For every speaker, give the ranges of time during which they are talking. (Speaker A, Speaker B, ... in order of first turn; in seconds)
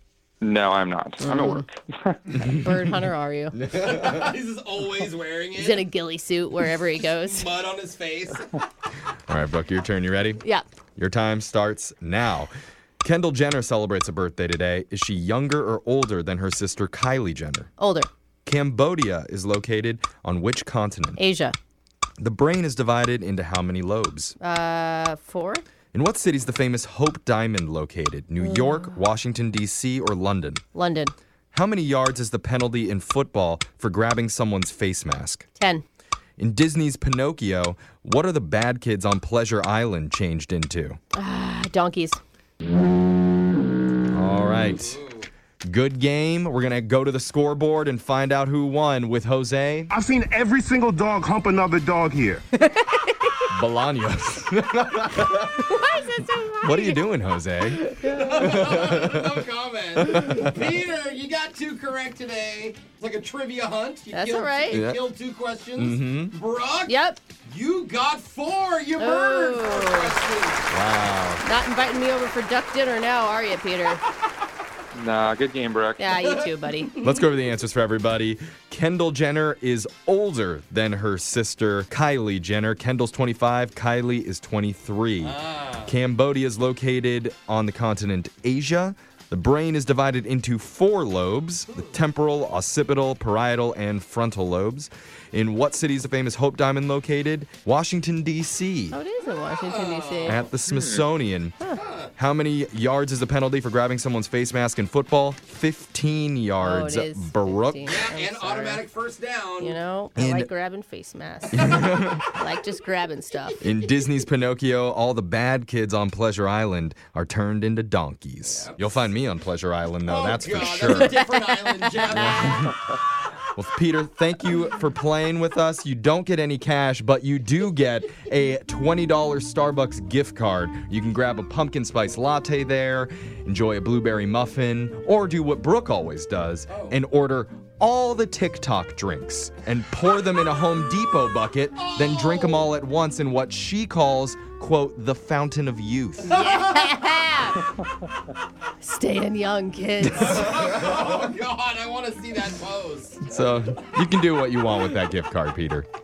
Speaker A: 0.4-2.6, 74.9-76.1, 100.7-101.0
Speaker B: 1.2-1.6, 2.4-3.6, 5.5-7.5, 17.8-18.1, 21.2-21.6, 24.4-25.6, 28.4-28.9, 30.7-31.1, 35.6-35.8, 41.1-42.2, 52.6-53.5, 55.6-57.0, 57.9-58.7, 64.1-64.8, 66.9-67.2, 69.0-70.2, 71.4-74.0, 76.0-76.9, 98.9-100.5, 106.6-108.8, 109.6-113.6, 146.3-147.6, 148.8-150.5
Speaker C: 3.7-5.9, 7.1-8.6, 44.9-45.2, 58.0-70.7, 76.2-77.1, 85.2-85.9, 99.6-100.5, 101.8-102.1, 107.9-109.8, 118.5-119.0, 120.0-122.8, 136.7-137.0, 141.8-142.7, 146.3-146.9, 150.1-153.3
Speaker D: 9.3-10.4, 11.0-12.5, 13.0-17.7, 18.5-21.2, 22.2-24.4, 25.9-30.6, 31.5-35.5, 36.4-41.0, 44.1-45.0, 45.7-49.9, 53.5-55.7, 56.6-59.3, 60.0-60.5, 64.7-65.0, 65.8-66.3, 70.7-71.4, 77.0-99.0, 100.3-101.6, 102.2-108.0, 110.2-110.5, 111.5-112.3, 113.6-121.2, 122.1-122.8, 123.5-146.3, 153.2-155.9
Speaker E: 49.9-52.4